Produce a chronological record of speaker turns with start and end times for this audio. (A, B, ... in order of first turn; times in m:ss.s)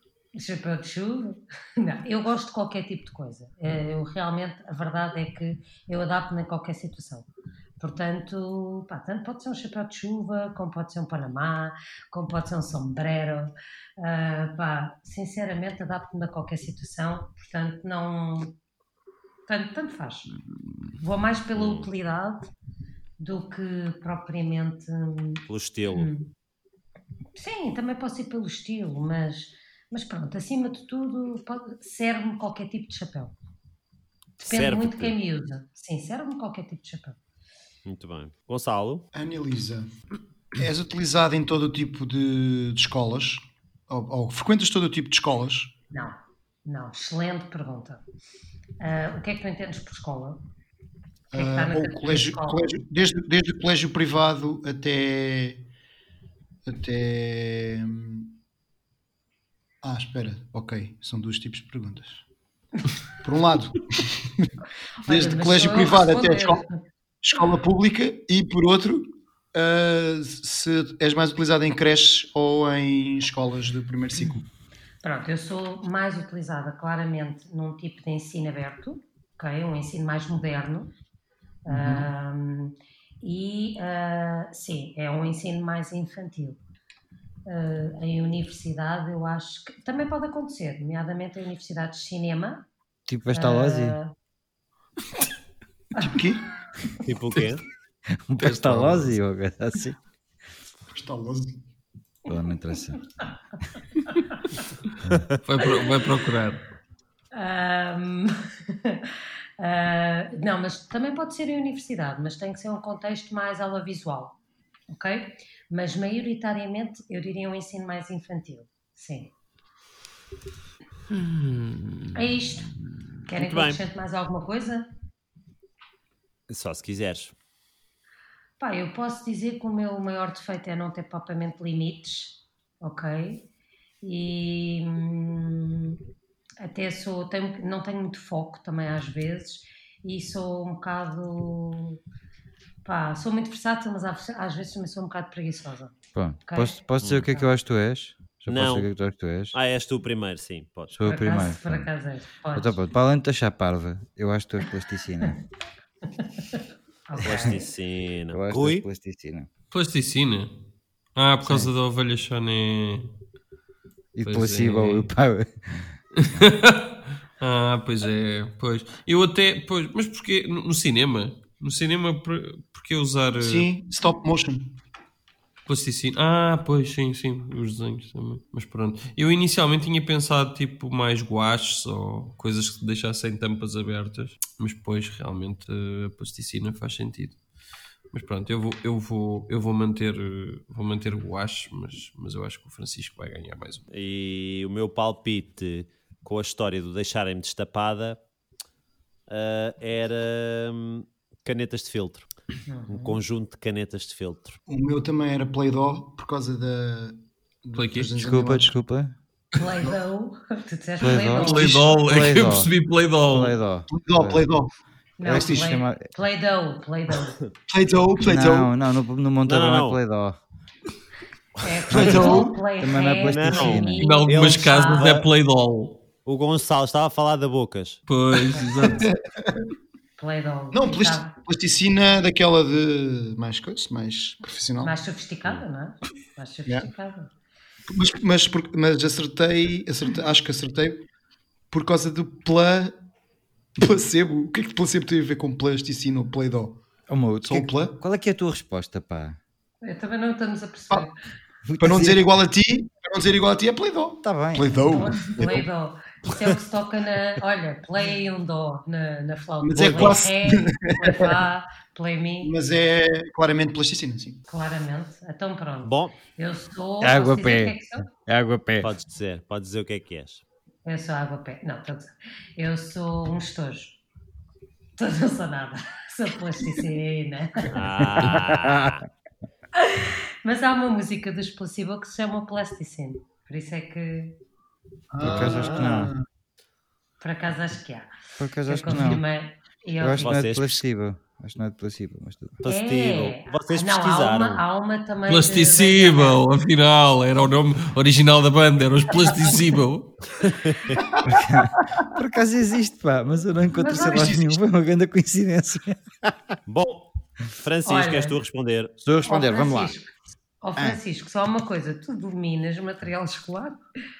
0:00.3-0:07.3 A
0:07.8-0:18.6 A
0:19.5-0:20.3 A
0:21.0-0:22.5 A
0:21.6-0:21.9 B
0:23.2-0:26.3 A
0:25.5-0:26.1 B
0:27.3-0:33.3 A
0:34.4-0:37.2 A
0:34.4-0:35.1 B
0:37.8-0:39.0 B
0:39.1-0:39.9 C
0:40.5-0:45.7 C
0:45.9-0:48.0 A
0:48.8-0:50.4 A
0:51.3-0:55.7 C
0:51.3-0:52.7 A
0:56.6-0:58.3 C
0:59.8-1:02.2 C
1:03.2-1:04.5 C
1:05.0-1:06.8 A
1:05.1-1:06.6 C
1:07.2-1:14.5 C
1:15.0-1:20.9 A
1:21.6-1:26.6 A
1:21.7-1:22.1 C
1:27.4-1:32.6 A
1:33.1-1:34.0 D
1:33.3-1:34.1 A
1:36.0-1:36.4 C
1:37.0-1:37.6 B
1:38.1-1:40.0 D
1:38.4-1:39.1 B
1:40.9-1:41.6 C
1:42.3-1:43.0 D
1:44.1-1:44.6 A
1:45.4-1:46.6 E
1:47.3-1:54.4 A
1:54.9-1:59.3 A
2:01.3-2:02.0 E
2:02.1-2:02.7 A
2:03.2-2:04.9 A
2:03.3-2:03.8 B
2:06.5-2:07.3 B
2:08.6-2:13.5 A
2:14.0-2:16.0 A
2:16.6-2:22.0 A
2:22.8-2:25.9 A
2:26.1-2:29.6 D
2:26.4-2:27.5 A
2:28.5-2:28.9 B
2:29.5-2:30.9 B
2:30.9-2:31.9 D
2:31.0-2:32.8 A
2:32.5-2:35.4 D
2:36.1-2:37.7 A
2:37.2-2:38.8 B
2:38.3-2:39.5 D
2:39.7-2:40.5 E
2:41.2-2:43.1 E
2:41.4-2:41.7 D
2:44.2-2:45.9 D
2:44.2-2:45.1 E
2:46.2-2:53.7 E
2:53.4-2:54.8 C
2:55.6-3:07.4 E
3:08.1-3:13.8 E
3:13.9-3:18.2 B
3:19.3-3:22.3 B
3:22.7-3:23.2 A
3:22.9-3:24.6 B
3:24.7-3:28.7 C
3:27.8-3:28.1 E
3:28.2-3:29.1 D
3:29.6-3:32.0 A
3:31.0-3:32.7 D
3:31.4-3:33.6 E
3:33.3-3:34.4 D
3:33.9-3:34.7 C
3:35.2-3:37.4 A
3:35.2-3:36.0 D
3:35.3-3:35.6 C
3:37.7-3:38.7 C
3:38.2-3:40.4 D
3:39.4-3:40.0 B
3:41.6-3:45.2 A
3:41.9-3:42.5 C
3:41.9-3:44.1 D
3:43.3-3:45.3 B
3:44.0-3:46.0 E
3:46.2-3:48.0 B
3:48.1-3:49.1 E
3:48.8-3:49.6 C
3:50.2-3:51.3 A
3:50.7-3:54.9 C
3:54.8-3:57.3 A
3:57.9-4:01.0 C
4:01.7-4:02.9 C
4:03.8-4:06.8 C
4:07.1-4:09.4 D
4:07.4-4:08.0 C
4:09.8-4:11.1 A
4:11.6-4:12.3 D
4:11.8-4:15.7 C
4:14.2-4:15.0 D
4:14.9-4:22.5 A
4:19.6-4:21.4 C
4:19.8-4:20.2 B
4:22.4-4:24.4 C
4:24.5-4:28.1 A
4:25.8-4:26.2 B
4:27.0-4:28.9 D
4:28.8-4:30.4 B
4:30.8-4:34.0 A
4:35.0-4:37.8 A
4:37.7-4:39.0 B
4:38.2-4:39.0 D
4:39.7-4:44.3 A
4:45.1-4:46.2 C
4:45.2-4:46.1 D
4:45.2-4:46.0 B
4:47.2-4:48.1 A
4:48.4-4:49.2 D
4:48.6-4:50.4 A
4:50.0-4:52.6 D
4:50.2-4:50.8 B
4:52.6-4:54.6 B
4:52.6-4:56.4 A
4:55.3-5:00.3 E
5:00.4-5:01.0 B
5:01.2-5:06.4 D
5:03.8-5:04.4 A
5:03.9-5:04.6 C
5:06.7-5:08.9 B
5:07.8-5:08.4 A
5:09.0-5:09.9 D
5:09.2-5:10.1 A
5:10.6-5:13.8 A